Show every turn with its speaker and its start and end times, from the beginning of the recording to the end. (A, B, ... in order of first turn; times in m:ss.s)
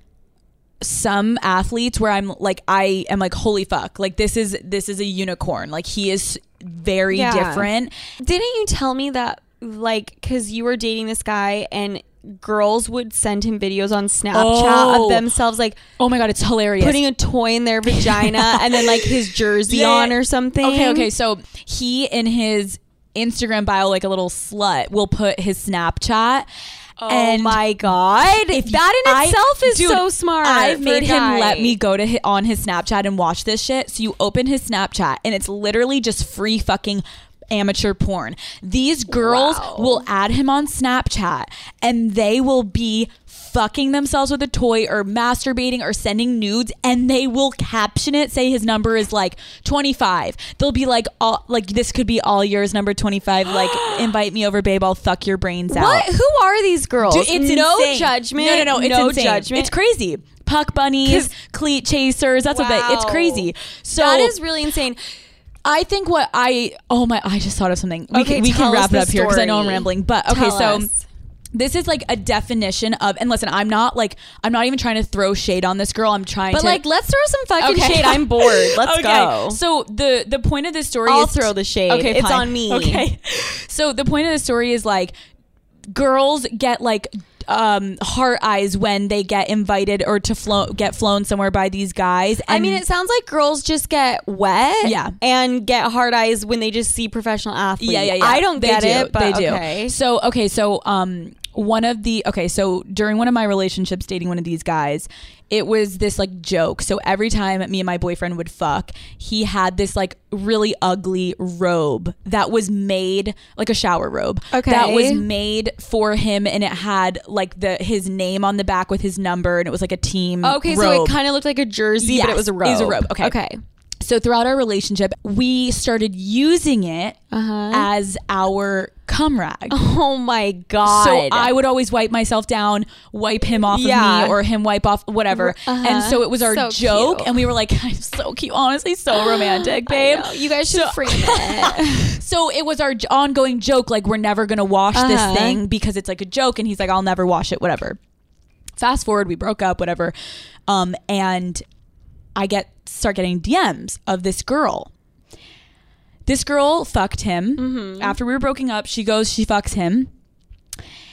0:00.8-0:07.9 A
0:07.1-0:07.7 B
0:08.2-0:15.8 B
0:14.3-0:15.2 A
0:16.0-0:17.0 A
0:16.8-0:21.1 B
0:17.9-0:26.5 A
0:27.0-0:31.8 B
0:27.0-0:27.7 A
0:28.2-0:56.1 A
0:39.1-0:40.0 B
0:53.5-0:54.1 B
0:55.7-0:59.7 B
0:57.0-1:04.3 A
1:01.0-1:01.3 B
1:02.5-1:05.0 B
1:05.6-1:10.9 A
1:08.1-1:11.0 B
1:11.5-1:16.8 A
1:16.5-1:19.6 B
1:17.6-1:25.1 A
1:21.0-1:23.0 B
1:25.9-1:32.8 A
1:32.5-1:39.9 B
1:34.8-1:35.1 A
1:37.8-2:01.2 A
1:54.5-1:55.2 B
2:00.4-2:03.6 B
2:02.0-2:03.4 A
2:04.0-2:07.2 A
2:07.3-2:07.9 B
2:07.7-2:09.7 A
2:09.7-2:11.5 B
2:10.8-2:28.0 A
2:13.7-2:14.4 B
2:15.3-2:17.4 B
2:19.1-2:22.2 B
2:24.9-2:25.6 B
2:28.8-2:30.1 A
2:30.7-2:31.6 A
2:32.4-2:34.9 A
2:36.2-2:40.1 A
2:37.6-2:38.2 B